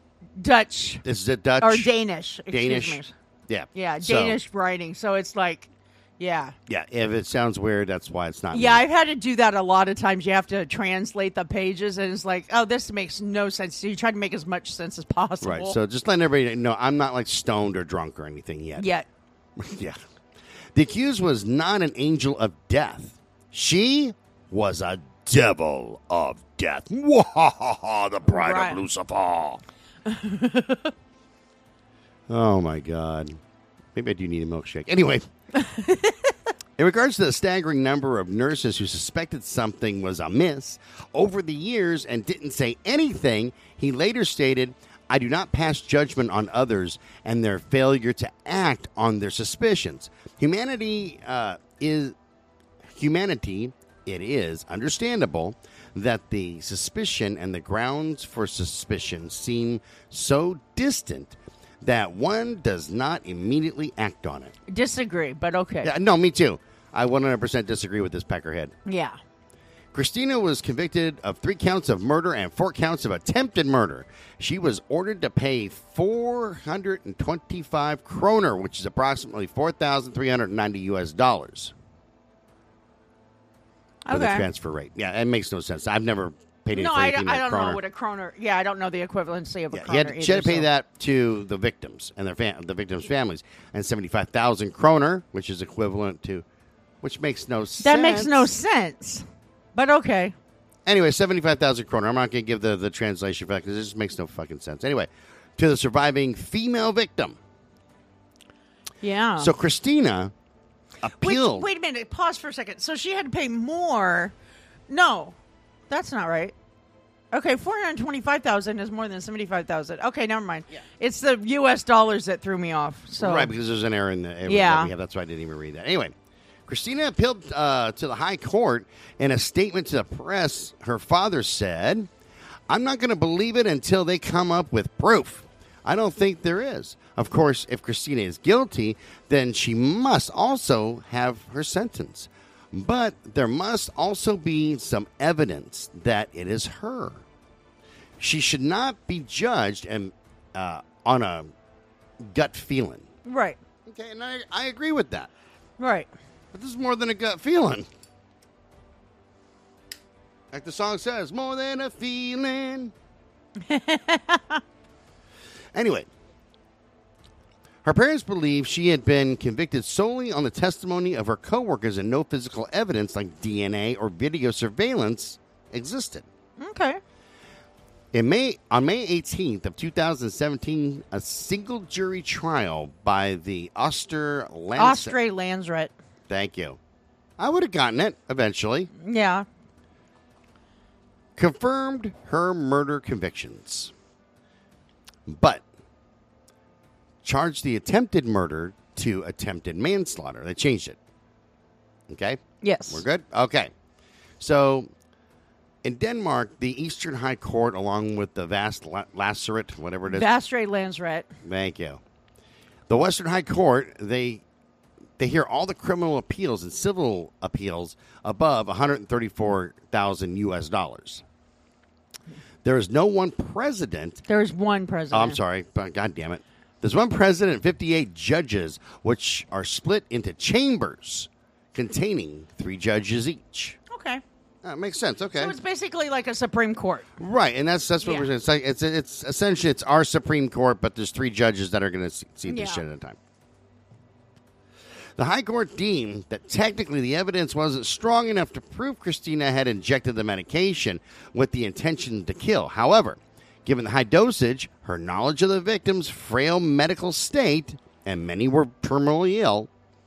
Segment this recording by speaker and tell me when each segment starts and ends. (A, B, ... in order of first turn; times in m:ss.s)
0:00.4-0:01.0 A
0:01.0-0:01.9 B
0:01.6-0:03.1 A
0:02.5-0:04.4 B
0:03.7-0:06.5 A
0:06.7-0:08.8 B
0:08.5-0:15.8 A
0:15.4-0:18.8 B
0:18.8-0:19.1 A
0:19.6-0:20.0 B
0:20.7-0:29.6 B
0:28.3-0:28.8 A
0:30.0-0:30.9 A
0:32.3-0:33.4 B
0:33.9-0:35.2 B
0:35.5-0:36.3 A
0:36.8-0:52.1 B
0:53.0-1:04.5 B
1:04.7-1:05.9 A
1:05.8-1:08.7 B
1:08.8-1:09.2 A
1:09.9-1:21.7 B
1:24.0-1:24.5 A
1:24.1-1:27.8 B
1:26.7-1:30.7 A
1:29.7-1:36.4 B
1:37.0-1:38.5 B
1:37.8-1:40.3 A
1:40.8-1:47.4 B
1:49.0-1:49.5 A
1:49.4-1:50.3 B
1:51.0-1:51.6 B
1:51.1-1:54.3 A
1:54.9-1:55.4 A
1:55.9-1:56.5 A
1:57.3-2:03.5 A
2:03.2-2:06.1 B
2:04.4-2:04.9 A
2:06.7-2:12.1 B
2:12.7-2:27.2 B
2:28.2-2:31.5 B
2:32.3-2:33.1 B
2:33.2-2:33.6 A
2:33.8-2:35.3 B
2:35.8-2:36.1 A
2:36.5-2:37.8 B
2:40.5-2:42.9 B
2:43.6-2:44.6 A
2:45.7-2:46.1 B
2:47.8-2:56.3 B
2:56.6-2:57.0 A
2:58.1-3:05.2 B
3:04.8-3:05.9 A
3:06.3-3:06.8 B
3:07.4-3:08.9 B
3:09.0-3:09.4 A
3:11.4-3:13.9 B
3:15.3-3:15.6 B
3:17.2-3:21.0 B
3:22.1-3:23.7 B
3:22.6-3:23.0 A
3:24.4-3:24.9 B
3:25.8-3:30.3 B
3:30.1-3:31.3 A
3:31.4-3:32.0 B
3:32.9-3:34.4 B
3:35.2-3:41.2 B
3:42.6-3:44.2 B
3:44.3-3:45.4 A
3:45.1-3:53.8 B
3:53.9-3:54.2 A
3:54.6-3:55.6 B
3:55.3-3:57.1 A
3:57.2-4:03.2 B
3:58.0-3:58.3 A
4:02.4-4:02.8 A
4:05.2-4:19.7 B